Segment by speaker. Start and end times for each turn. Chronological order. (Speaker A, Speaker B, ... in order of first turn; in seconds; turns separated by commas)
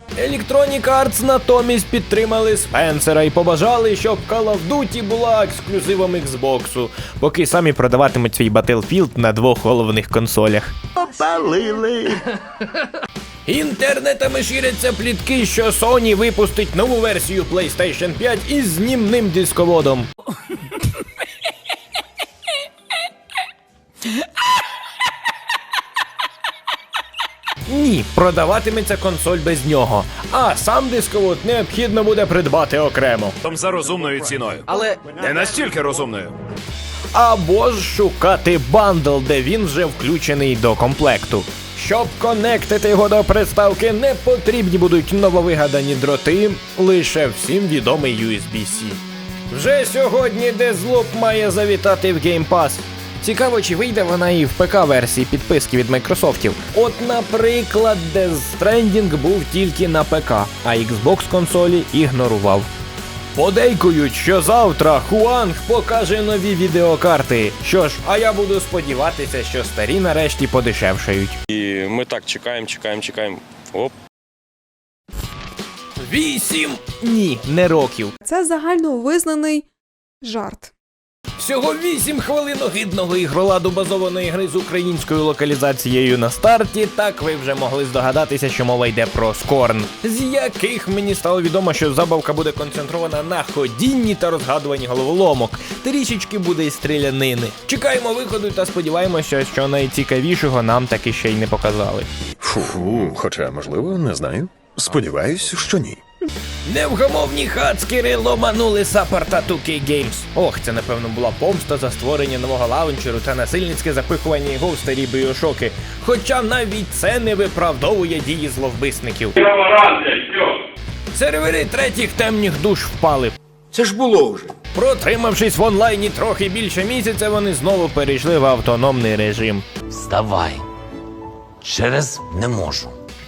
Speaker A: 0.1-10.7, Speaker B: 11.0-12.2, Speaker A: 13.4-20.1, Speaker A: 27.7-33.4, Speaker C: 33.4-36.3, Speaker A: 37.1-62.7, Speaker A: 63.3-71.4, Speaker D: 71.5-73.9, Speaker A: 76.0-78.1, Speaker E: 78.2-79.6, Speaker E: 80.2-80.7, Speaker A: 81.4-102.1, Speaker B: 102.4-106.0, Speaker A: 106.7-119.4, Speaker D: 119.4-120.5, Speaker A: 121.1-123.3, Speaker A: 124.7-129.6, Speaker F: 130.0-130.6, Speaker F: 131.6-132.9